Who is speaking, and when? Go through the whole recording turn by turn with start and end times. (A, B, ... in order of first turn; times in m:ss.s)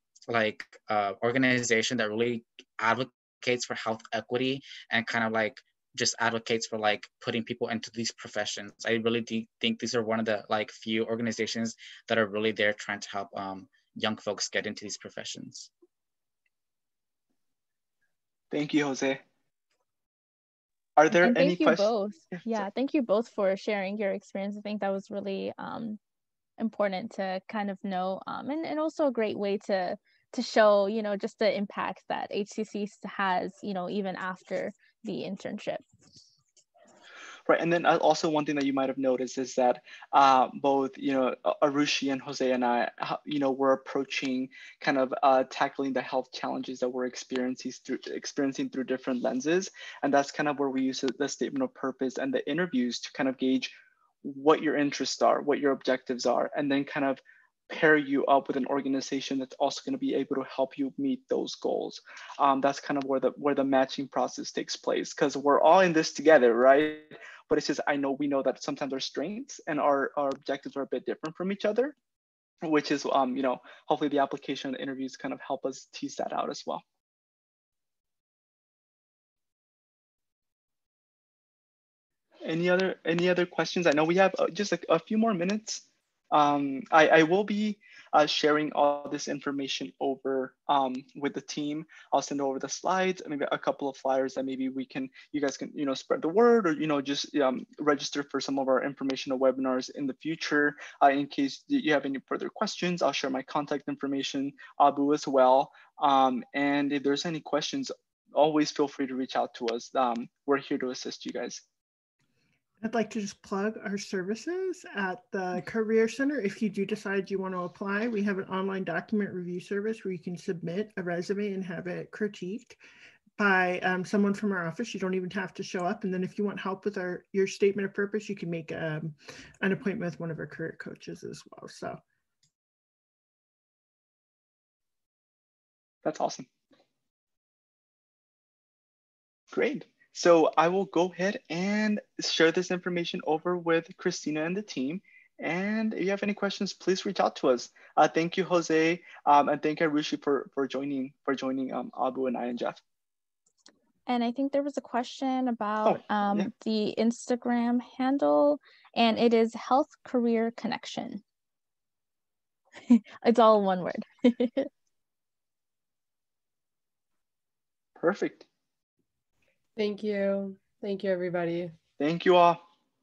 0:00.3-0:15.7 A
0:18.5-0:19.2 B
0:21.0-0:22.7 B
0:21.1-0:26.0 C
0:26.6-0:35.8 C
0:37.5-1:12.0 B
1:12.6-1:16.8 B
1:22.4-1:51.6 B
1:52.8-2:02.8 D
2:03.4-2:12.0 D
2:16.0-2:16.5 B
2:19.5-2:32.8 B
2:34.1-2:41.2 C
2:35.8-2:36.5 B
2:42.9-2:44.7 C
2:48.0-2:48.5 B
2:49.8-2:51.7 E
2:52.0-2:52.6 B